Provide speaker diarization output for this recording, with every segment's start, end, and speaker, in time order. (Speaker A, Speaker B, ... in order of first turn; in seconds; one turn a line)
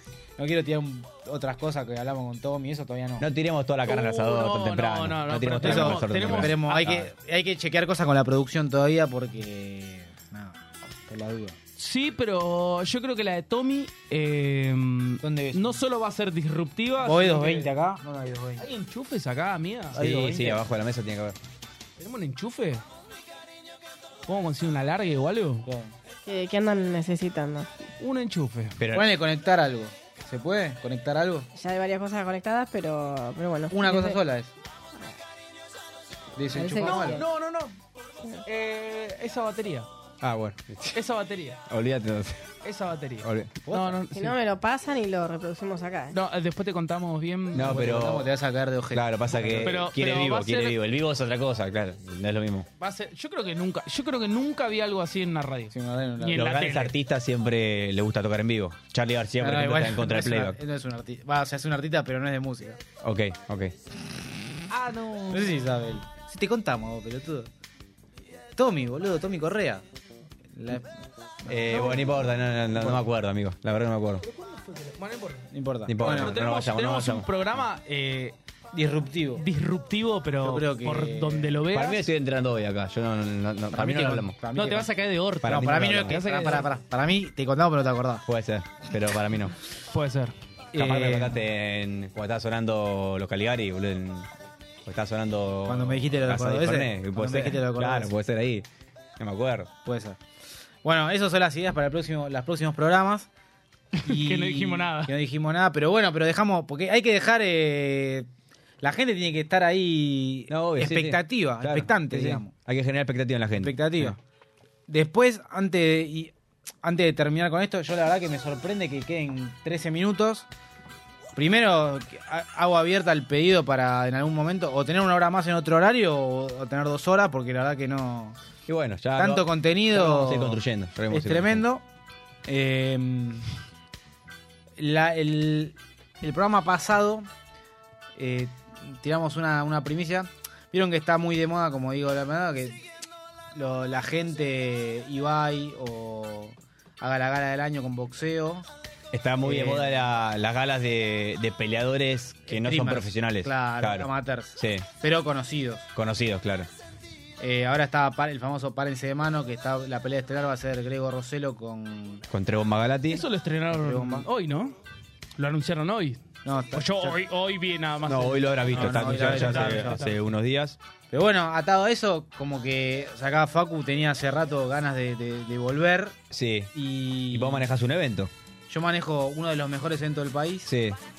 Speaker A: 0.4-3.3
Speaker B: 3.2-7.1
Speaker C: 3.9-6.9
Speaker A: 5.6-11.6
Speaker C: 11.8-17.7
Speaker A: 15.2-15.8
Speaker A: 17.0-18.7
Speaker C: 18.6-20.1
Speaker A: 19.9-20.6
Speaker B: 19.9-21.4
Speaker C: 22.0-22.8
Speaker C: 24.3-25.6
Speaker A: 25.6-25.9
Speaker D: 26.2-27.7
Speaker C: 28.0-28.8
Speaker B: 28.8-29.1
Speaker A: 28.9-31.5
Speaker D: 31.5-34.2
Speaker A: 33.7-34.5
Speaker A: 36.4-37.2
Speaker D: 36.5-37.2
Speaker C: 36.7-37.8
Speaker C: 38.4-39.9
Speaker B: 40.2-41.0
Speaker C: 40.9-41.6
Speaker B: 41.7-42.5
Speaker C: 42.6-44.4
Speaker B: 43.2-43.5
Speaker A: 43.6-44.1
Speaker D: 44.1-46.2
Speaker C: 46.1-48.0
Speaker B: 47.5-48.3
Speaker A: 47.6-49.9
Speaker B: 48.9-52.7
Speaker C: 49.6-50.8
Speaker C: 52.8-56.9
Speaker A: 55.7-56.4
Speaker B: 56.3-60.6
Speaker A: 59.4-62.8
Speaker B: 63.0-63.7
Speaker C: 64.7-65.6
Speaker A: 65.3-67.5
Speaker A: 68.5-69.8
Speaker A: 70.5-70.9
Speaker A: 71.4-73.0
Speaker B: 71.5-74.2
Speaker C: 74.2-75.5
Speaker A: 75.5-76.3
Speaker B: 75.9-77.3
Speaker C: 76.0-78.3
Speaker A: 78.7-79.4
Speaker C: 79.4-82.0
Speaker A: 80.4-81.6
Speaker B: 81.7-84.3
Speaker A: 83.7-84.9
Speaker C: 84.5-86.7
Speaker B: 85.4-86.2
Speaker A: 85.4-88.2
Speaker B: 88.3-89.5
Speaker C: 89.9-90.3
Speaker A: 90.7-91.4
Speaker B: 90.7-94.3
Speaker B: 94.8-98.7
Speaker A: 95.7-98.1
Speaker B: 99.2-99.7
Speaker A: 99.8-100.2
Speaker A: 100.8-103.3
Speaker C: 104.0-105.1
Speaker A: 104.0-108.3
Speaker A: 108.8-112.5
Speaker B: 110.5-114.2
Speaker A: 113.6-114.2
Speaker A: 114.9-116.3
Speaker A: 116.8-120.5
Speaker A: 121.3-128.4
Speaker B: 128.7-131.6
Speaker A: 129.2-131.8
Speaker A: 132.5-133.5
Speaker A: 134.8-137.3
Speaker A: 138.2-142.8
Speaker A: 143.5-148.7
Speaker B: 149.1-154.9
Speaker A: 149.4-150.1
Speaker A: 152.5-155.9
Speaker B: 155.9-156.7
Speaker A: 157.4-162.2
Speaker B: 162.3-163.2
Speaker C: 163.1-164.8
Speaker A: 163.7-164.3
Speaker C: 165.4-166.2
Speaker A: 166.4-167.2
Speaker C: 166.7-170.1
Speaker B: 168.1-170.8
Speaker A: 168.7-170.1
Speaker A: 171.1-176.2
Speaker B: 176.3-176.7
Speaker A: 176.7-177.7
Speaker B: 177.3-178.3
Speaker A: 178.7-180.7
Speaker B: 180.6-181.0